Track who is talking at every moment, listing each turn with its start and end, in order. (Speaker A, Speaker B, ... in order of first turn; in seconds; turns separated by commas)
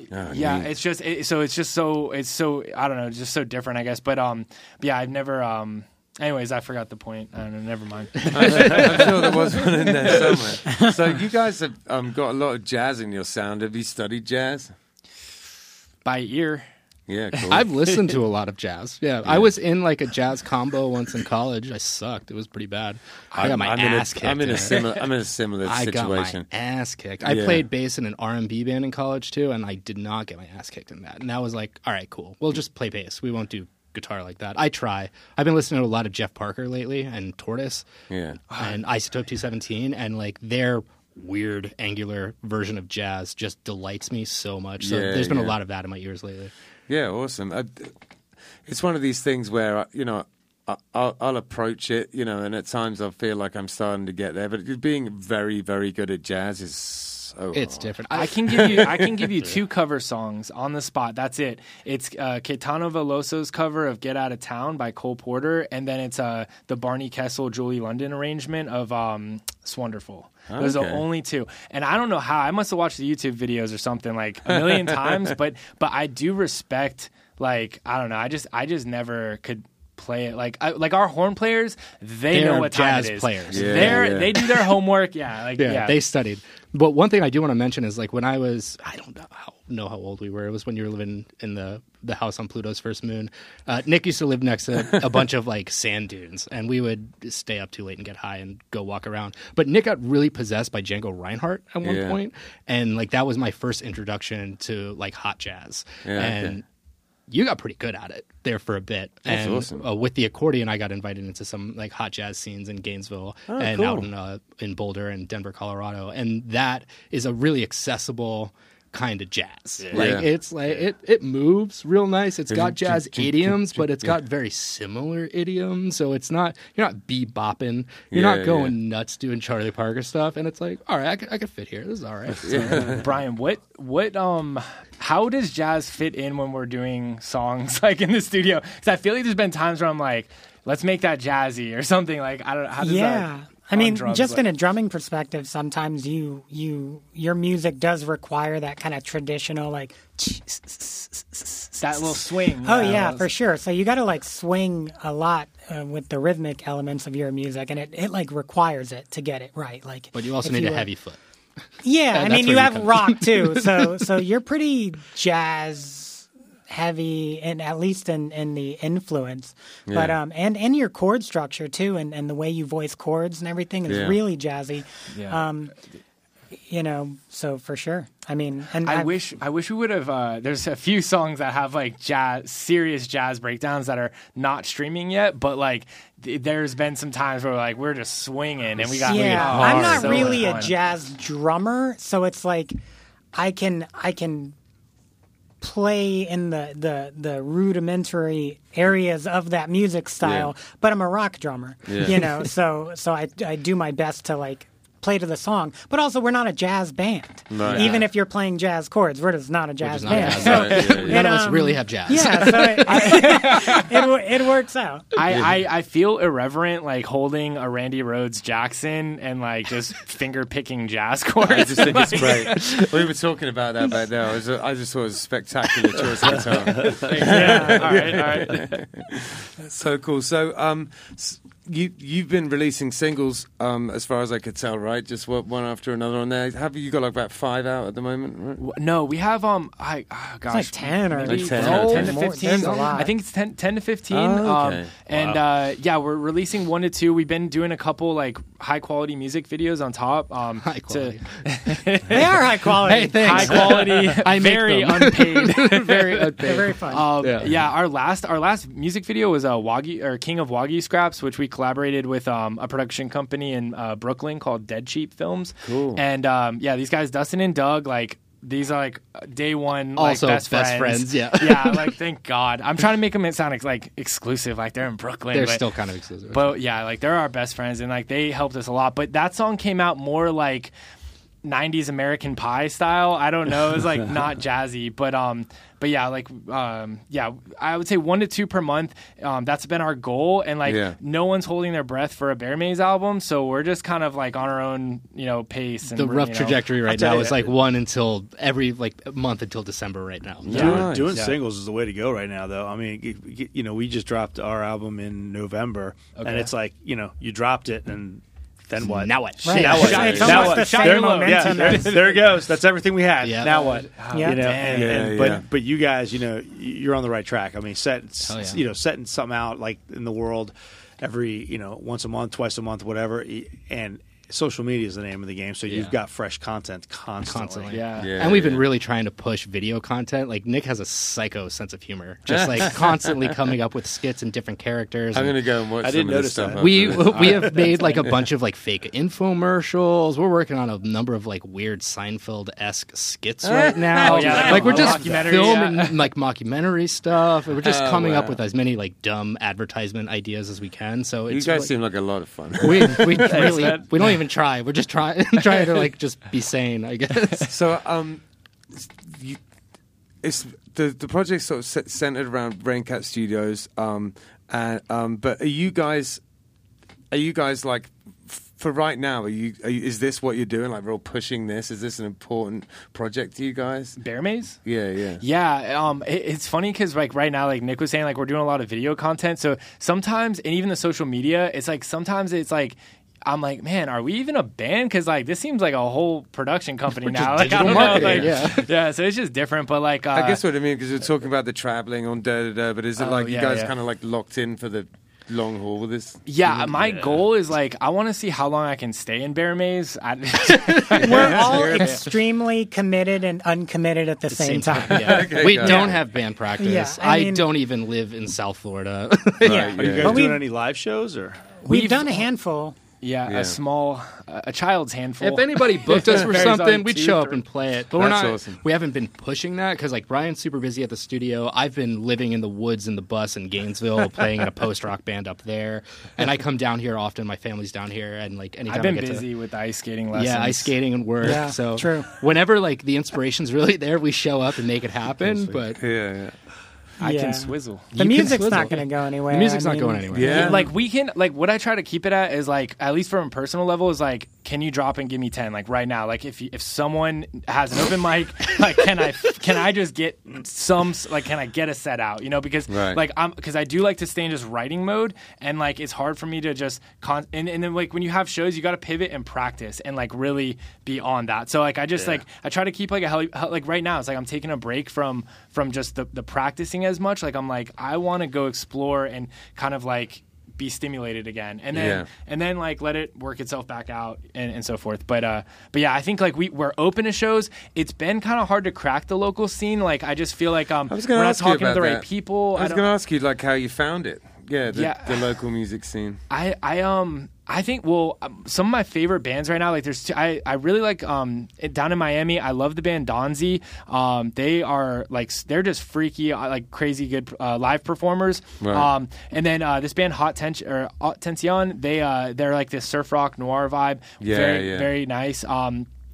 Speaker A: 0.1-0.7, Speaker B: 0.3-9.3, Speaker A: 8.3-14.7, Speaker B: 16.0-16.6, Speaker A: 17.1-17.6, Speaker C: 17.5-24.8, Speaker A: 19.2-19.5, Speaker A: 23.3-26.4, Speaker C: 25.6-37.9, Speaker A: 27.2-27.6, Speaker A: 38.1-38.6, Speaker C: 38.4-46.5, Speaker A: 44.8-45.5, Speaker A: 46.9-47.9, Speaker A: 48.6-57.9, Speaker C: 57.5-58.9, Speaker B: 58.1-86.0, Speaker A: 58.5-59.0, Speaker A: 70.5-71.0, Speaker A: 74.5-75.3, Speaker C: 82.3-84.7, Speaker A: 83.5-84.3, Speaker C: 85.6-106.6, Speaker A: 101.8-102.2, Speaker A: 106.0-106.6, Speaker C: 107.3-133.1, Speaker A: 109.2-109.9, Speaker A: 113.5-114.1, Speaker D: 119.8-120.2, Speaker A: 119.9-120.3, Speaker A: 122.5-124.2, Speaker A: 128.1-128.7, Speaker A: 132.4-133.0, Speaker B: 132.7-144.4, Speaker E: 142.8-160.9, Speaker B: 151.8-153.3, Speaker C: 160.1-161.2, Speaker E: 161.8-175.7, Speaker C: 162.1-164.1, Speaker A: 169.9-170.2, Speaker A: 173.9-174.2, Speaker B: 175.1-175.4, Speaker E: 176.7-179.1, Speaker B: 178.8-190.7, Speaker C: 189.0-190.5, Speaker E: 189.0-192.8, Speaker E: 193.3-194.5, Speaker E: 195.6-215.1, Speaker A: 200.2-200.5, Speaker A: 201.8-202.2, Speaker A: 207.5-208.0, Speaker C: 209.8-213.2, Speaker B: 210.1-210.7, Speaker A: 210.1-211.2, Speaker B: 212.8-214.1, Speaker B: 215.1-222.9, Speaker A: 215.3-215.6, Speaker A: 221.4-238.6, Speaker B: 226.0-228.8, Speaker E: 227.2-228.1, Speaker B: 238.6-252.4, Speaker E: 240.5-243.1, Speaker A: 241.2-242.2, Speaker A: 244.1-244.9, Speaker D: 245.1-245.4, Speaker C: 250.6-257.7, Speaker E: 252.1-253.7, Speaker B: 253.2-275.6, Speaker E: 256.4-257.2, Speaker A: 265.6-266.0, Speaker C: 269.9-271.9, Speaker C: 275.3-276.6, Speaker B: 276.3-280.7, Speaker B: 281.4-297.5, Speaker A: 290.6-291.0, Speaker C: 295.9-300.9, Speaker A: 300.4-301.1, Speaker D: 300.5-327.9, Speaker B: 300.5-301.3, Speaker B: 306.1-306.5, Speaker C: 308.8-310.4, Speaker E: 309.4-312.1, Speaker B: 309.6-312.4, Speaker A: 310.1-310.4, Speaker C: 313.2-313.9, Speaker B: 313.9-314.9, Speaker E: 314.1-314.6, Speaker A: 314.6-315.4, Speaker C: 318.2-318.6, Speaker C: 325.7-325.9, Speaker C: 327.2-335.4, Speaker B: 327.7-328.1, Speaker A: 328.0-328.6, Speaker A: 332.3-333.3, Speaker A: 335.1-337.6, Speaker D: 335.8-338.0, Speaker C: 336.6-351.7, Speaker A: 343.4-345.0, Speaker B: 344.0-346.0, Speaker E: 344.0-344.8, Speaker A: 347.6-348.4, Speaker A: 351.3-353.6, Speaker C: 352.6-357.5, Speaker D: 353.4-353.8, Speaker A: 357.4-359.4, Speaker A: 360.2-366.2, Speaker A: 367.1-374.0, Speaker B: 374.0-374.6, Speaker A: 374.6-375.2, Speaker B: 375.2-390.4, Speaker C: 387.1-388.7, Speaker A: 387.4-388.4, Speaker A: 390.1-396.2, Speaker B: 393.0-393.7, Speaker B: 396.2-402.1, Speaker C: 400.6-401.9, Speaker E: 400.9-405.9, Speaker C: 404.3-409.8, Speaker A: 404.8-406.0, Speaker E: 406.6-407.5, Speaker A: 409.4-410.2, Speaker E: 409.4-410.5, Speaker D: 409.8-411.6, Speaker E: 411.6-412.8, Speaker B: 411.6-412.3, Speaker B: 413.0-417.4, Speaker A: 413.2-413.6, Speaker C: 415.2-429.3, Speaker A: 418.0-418.6, Speaker B: 428.7-430.8, Speaker C: 430.1-435.8, Speaker E: 431.2-432.1, Speaker A: 435.7-436.4, Speaker B: 437.0-437.9, Speaker E: 437.0-440.4, Speaker C: 437.9-440.6, Speaker A: 440.1-440.7, Speaker B: 440.2-482.9, Speaker A: 452.7-453.0, Speaker D: 461.9-462.2, Speaker A: 471.7-472.1, Speaker A: 480.9-486.2, Speaker B: 484.7-485.3, Speaker B: 486.3-505.9, Speaker A: 498.6-498.9, Speaker A: 504.2-504.9